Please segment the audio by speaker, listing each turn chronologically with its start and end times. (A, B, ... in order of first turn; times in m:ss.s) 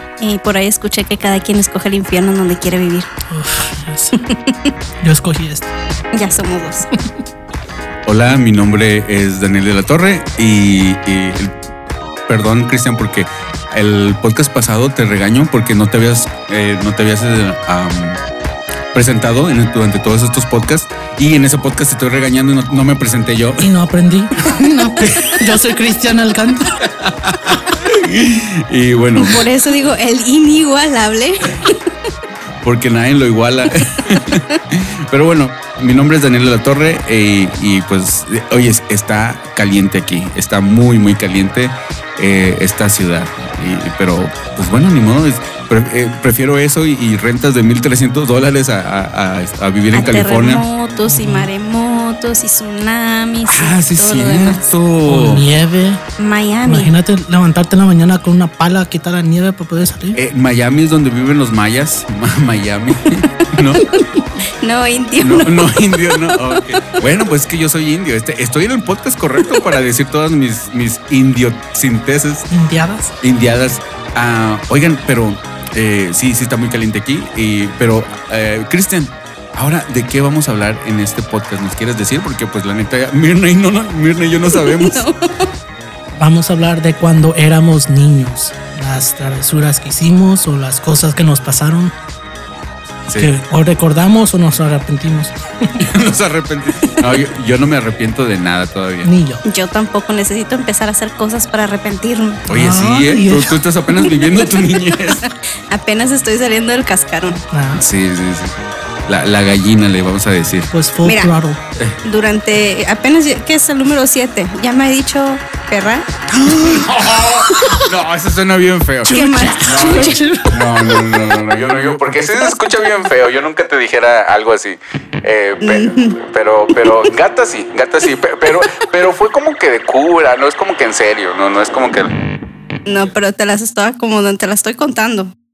0:00.2-0:03.1 A
0:03.3-0:04.2 B
0:04.2-0:04.7 A
0:05.0-0:05.7 B
0:06.1-0:06.9 A
0:08.0-0:11.6 C
0:12.3-0:18.2 C
0:18.9-0:23.7 C
0:23.6-0:26.8 B
0:25.0-0:25.4 C
0:27.0-0:29.4 C
0:29.2-0:31.8 A
0:32.6-0:50.6 C
0:49.9-0:54.7 A
0:51.0-0:51.5 B
0:53.5-0:55.4 C
0:55.0-0:56.0 B
0:56.2-0:56.9 A
0:56.6-1:00.2 B
1:00.1-1:03.9 C
1:03.8-1:05.7 A
1:05.2-1:12.5 C
1:06.2-1:06.6 A
1:12.5-1:13.1 B
1:13.2-1:25.0 C
1:24.5-1:25.5 A
1:26.2-1:31.9 B
1:33.2-1:35.8 B
1:35.8-1:39.1 C
1:39.0-1:39.4 B
1:39.4-1:42.4 A
1:42.5-1:43.6 B
1:42.5-1:45.2 C
1:45.2-1:47.4 A
1:47.5-1:47.8 B
1:47.7-1:48.6 C
1:49.1-1:50.7 C
1:50.7-1:51.6 B
1:51.0-1:51.3 A
1:52.0-1:56.1 A
1:56.3-2:12.1 C
1:57.5-1:57.8 B
1:59.0-2:00.2 A
1:59.0-2:01.2 B
2:05.6-2:06.2 A
2:12.9-2:15.3 A